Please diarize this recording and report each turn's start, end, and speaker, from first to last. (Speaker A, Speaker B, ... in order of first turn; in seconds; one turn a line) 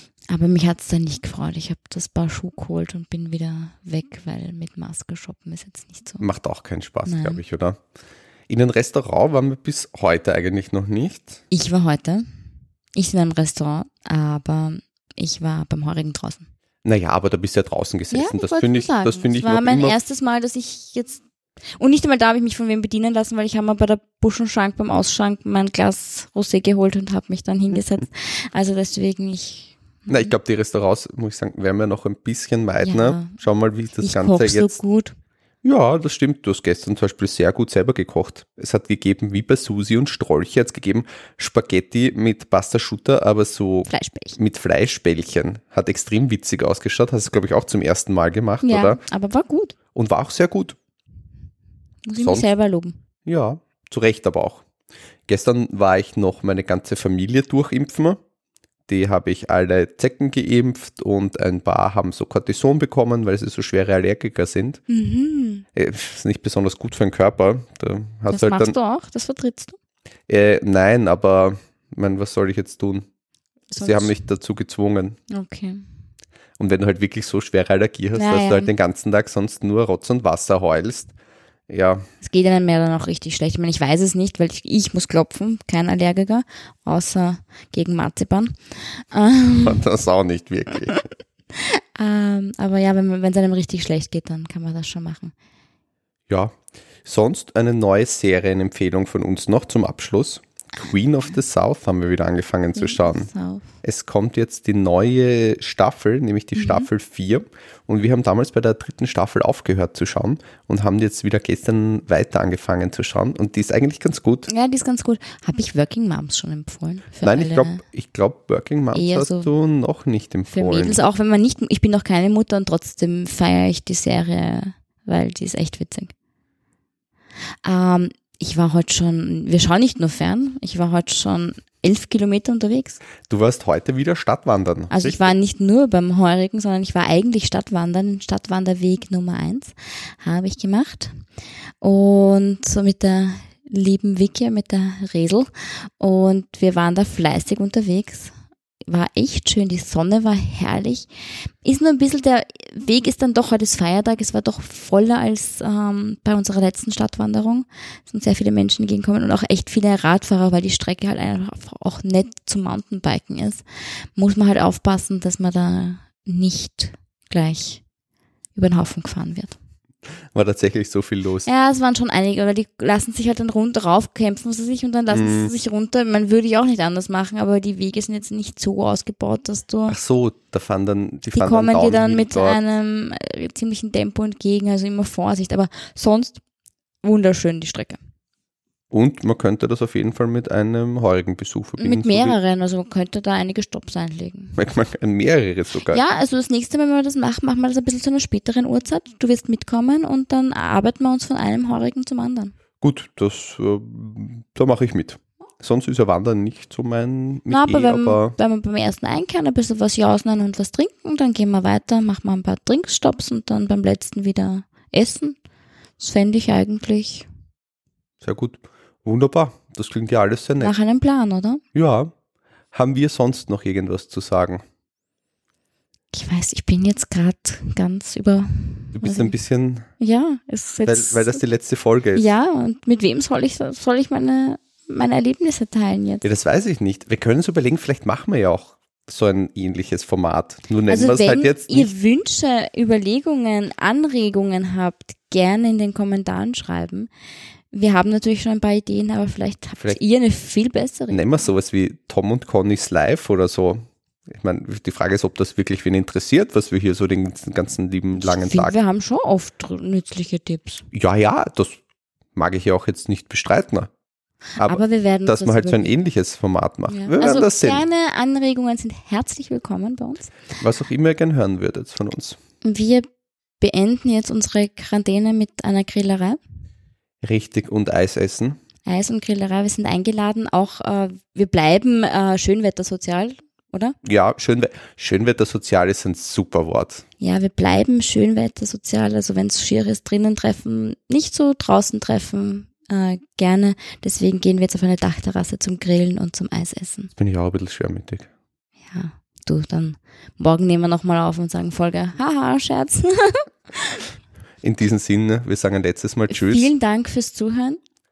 Speaker A: 0.3-6.3
Speaker B: 6.2-7.8
Speaker A: 7.0-7.4
Speaker B: 8.5-11.4
Speaker A: 11.5-12.2
Speaker A: 12.9-16.5
Speaker B: 16.8-20.0
Speaker A: 18.1-21.2
Speaker A: 21.7-30.3
Speaker B: 30.1-34.8
Speaker A: 32.8-33.4
Speaker A: 34.0-35.1
Speaker B: 35.6-49.0
Speaker A: 43.9-44.4
Speaker A: 48.6-49.7
Speaker B: 49.9-50.8
Speaker A: 52.0-53.0
Speaker B: 52.2-52.5
Speaker B: 53.2-54.6
Speaker B: 55.3-58.2
Speaker B: 58.9-64.8
Speaker A: 64.9-65.7
Speaker B: 65.7-68.7
Speaker A: 68.3-69.8
Speaker B: 70.3-73.0
Speaker A: 73.7-74.2
Speaker B: 73.8-75.2
Speaker A: 75.3-75.8
Speaker B: 76.6-81.1
Speaker A: 78.1-78.7
Speaker B: 81.7-82.0
Speaker A: 82.2-89.8
Speaker B: 89.6-91.0
Speaker A: 91.5-95.3
Speaker B: 96.3-103.3
Speaker A: 102.7-103.7
Speaker B: 103.8-114.5
Speaker A: 106.5-106.9
Speaker A: 114.5-117.8
Speaker B: 117.2-121.0
Speaker A: 118.9-119.5
Speaker A: 120.5-126.1
Speaker A: 127.6-133.0
Speaker B: 133.3-135.3
Speaker A: 134.9-141.1
Speaker A: 141.8-145.5
Speaker A: 146.0-163.6
Speaker A: 164.2-167.8
Speaker A: 168.5-169.6
Speaker B: 170.3-171.5
Speaker A: 171.4-180.0
Speaker B: 175.1-175.5
Speaker B: 179.9-182.6
Speaker A: 181.3-186.4
Speaker A: 187.0-188.0
Speaker B: 188.9-192.3
Speaker A: 191.8-194.6
Speaker B: 194.6-196.0
Speaker A: 195.9-202.5
Speaker B: 202.8-208.3
Speaker A: 207.5-215.4
Speaker A: 216.0-217.3
Speaker B: 218.2-220.7
Speaker A: 220.6-221.6
Speaker B: 221.7-222.1
Speaker B: 222.7-224.6
Speaker A: 226.1-229.3
Speaker B: 228.9-229.9
Speaker A: 230.0-231.4
Speaker B: 230.8-232.3
Speaker A: 232.1-236.2
Speaker B: 236.2-241.9
Speaker A: 240.9-247.1
Speaker A: 247.7-251.3
Speaker B: 251.1-258.8
Speaker A: 258.1-260.9
Speaker B: 260.9-261.8
Speaker B: 262.3-263.9
Speaker B: 264.6-267.8
Speaker A: 264.6-266.0
Speaker A: 266.9-270.3
Speaker B: 270.6-272.4
Speaker A: 272.6-273.1
Speaker A: 273.6-276.4
Speaker B: 277.2-278.6
Speaker A: 278.9-284.0
Speaker B: 284.0-287.0
Speaker A: 287.2-297.1
Speaker B: 297.1-298.3
Speaker A: 298.9-304.0
Speaker B: 304.6-306.7
Speaker A: 306.3-307.8